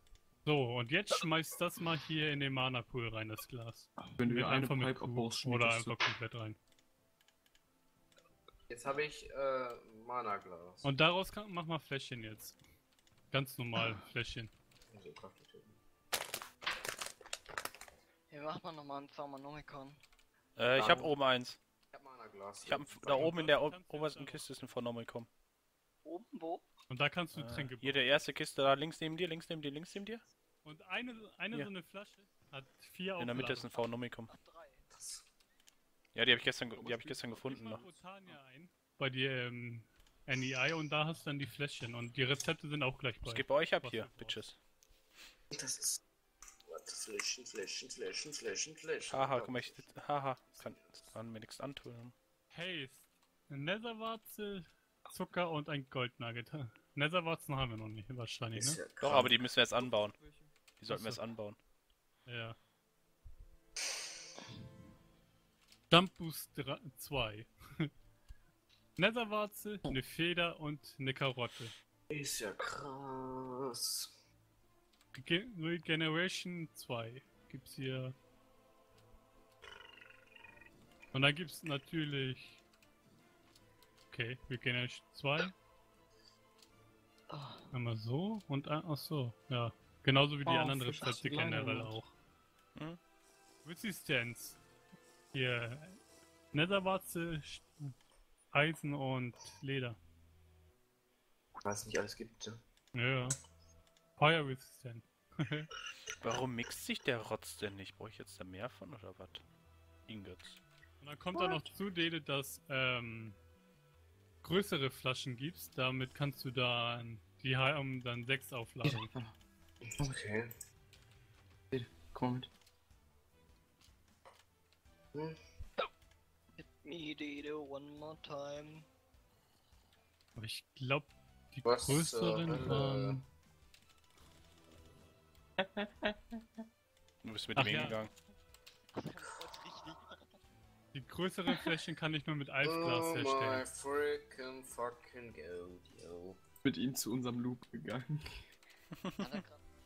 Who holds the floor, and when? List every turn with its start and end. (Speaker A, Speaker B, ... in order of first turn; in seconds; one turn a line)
Speaker A: 0.5-6.6
Speaker B: 4.2-6.0
Speaker C: 8.7-10.9
Speaker A: 10.8-12.6
Speaker A: 13.3-14.5
Speaker C: 14.9-15.8
Speaker D: 18.3-20.0
Speaker E: 20.6-21.6
Speaker C: 20.8-21.1
Speaker C: 21.9-23.4
Speaker E: 22.6-25.3
Speaker A: 23.2-24.5
Speaker D: 26.1-26.7
Speaker A: 26.9-28.1
Speaker E: 27.3-30.2
Speaker A: 30.6-33.7
Speaker E: 33.2-34.3
Speaker D: 33.6-34.9
Speaker C: 34.9-35.2
Speaker E: 36.1-37.9
Speaker B: 36.7-37.9
Speaker A: 37.3-44.4
Speaker E: 43.2-44.6
Speaker C: 45.5-46.0
Speaker C: 46.7-49.9
Speaker E: 49.1-52.1
Speaker C: 50.5-51.2
Speaker A: 52.5-58.8
Speaker C: 58.5-59.3
Speaker E: 59.0-60.1
Speaker B: 59.8-60.6
Speaker E: 60.8-61.6
Speaker A: 60.9-61.2
Speaker A: 62.3-62.6
Speaker A: 65.9-67.9
Speaker A: 69.0-71.7
Speaker C: 72.1-74.1
Speaker A: 75.1-78.2
Speaker A: 81.1-82.6
Speaker A: 84.1-85.5
Speaker D: 87.3-87.7
Speaker A: 87.7-92.1
Speaker B: 90.5-92.0
Speaker A: 93.6-94.6
Speaker A: 95.3-96.0
Speaker A: 96.5-97.9
Speaker A: 98.5-100.0
Speaker C: 101.6-102.6
Speaker A: 102.9-103.4
Speaker A: 104.2-105.7
Speaker E: 106.2-109.4
Speaker E: 110.1-110.6
Speaker A: 111.0-113.4
Speaker B: 111.3-111.6
Speaker A: 114.4-119.1
Speaker B: 118.8-119.3
Speaker C: 119.8-120.5
Speaker B: 121.7-122.5
Speaker D: 126.6-128.9
Speaker A: 130.3-133.2
Speaker C: 131.7-133.2
Speaker B: 135.6-136.4
Speaker E: 137.2-138.1
Speaker A: 137.6-138.0
Speaker D: 138.9-140.4
Speaker A: 140.9-143.7
Speaker C: 142.6-146.4
Speaker B: 146.6-148.5
Speaker D: 149.1-149.6